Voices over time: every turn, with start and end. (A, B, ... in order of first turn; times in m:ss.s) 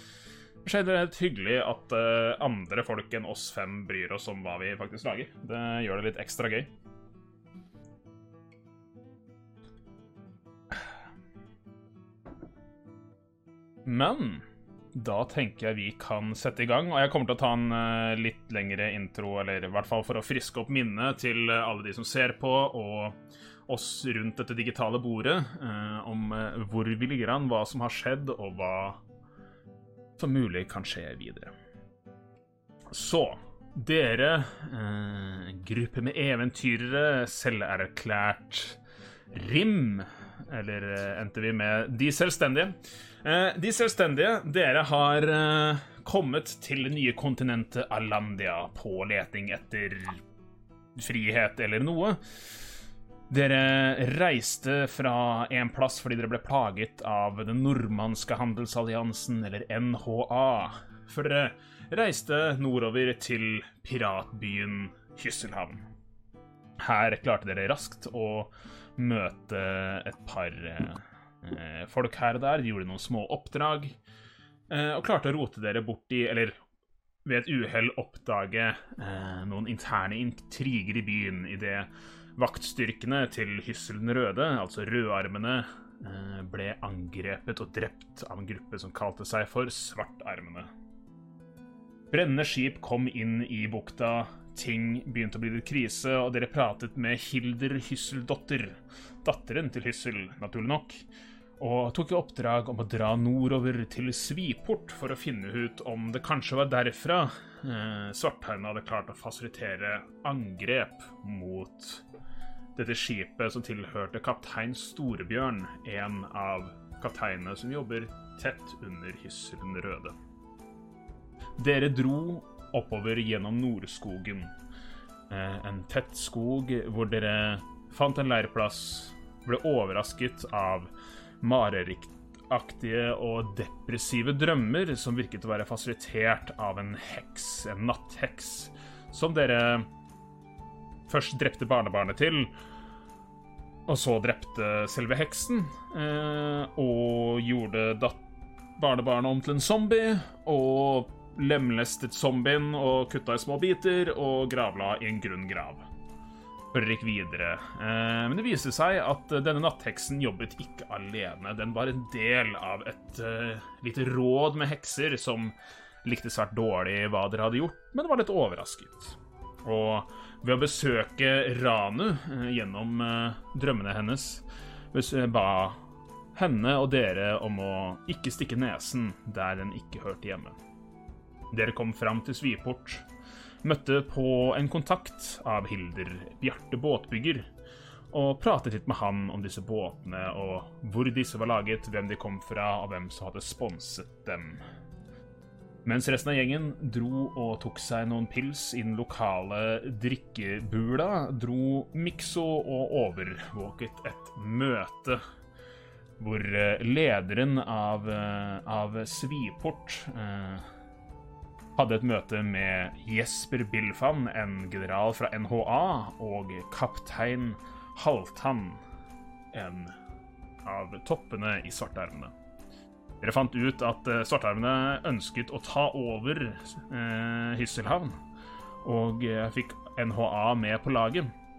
0:00.6-0:06.7 A
0:13.8-0:29.0 A
0:30.2-0:31.5 A
0:32.9-0:38.8 A
0:39.3-0:50.2 A
0:51.0-0:52.2 A
0:53.3-1:05.8 A
1:06.8-1:14.0 A
1:14.7-1:16.6 A
1:17.2-1:30.7 A
1:32.1-1:41.0 A
1:41.6-1:52.0 A
1:52.8-2:00.1 A
2:01.6-2:04.5 A
2:05.3-2:10.9 A
2:11.4-2:19.9 A
2:21.1-2:22.5 A
2:23.9-2:28.2 A
2:28.8-2:35.8 A
2:36.7-2:55.8 A
2:56.3-3:00.6 A
3:01.5-3:03.0 A
3:03.6-3:07.5 A
3:08.1-3:14.6 A
3:15.8-3:25.2 A
3:26.2-3:30.6 A
3:31.8-3:38.8 A
3:39.5-3:39.9 A
3:40.6-3:42.3 A
3:43.2-3:48.2 A
3:48.8-3:51.3 A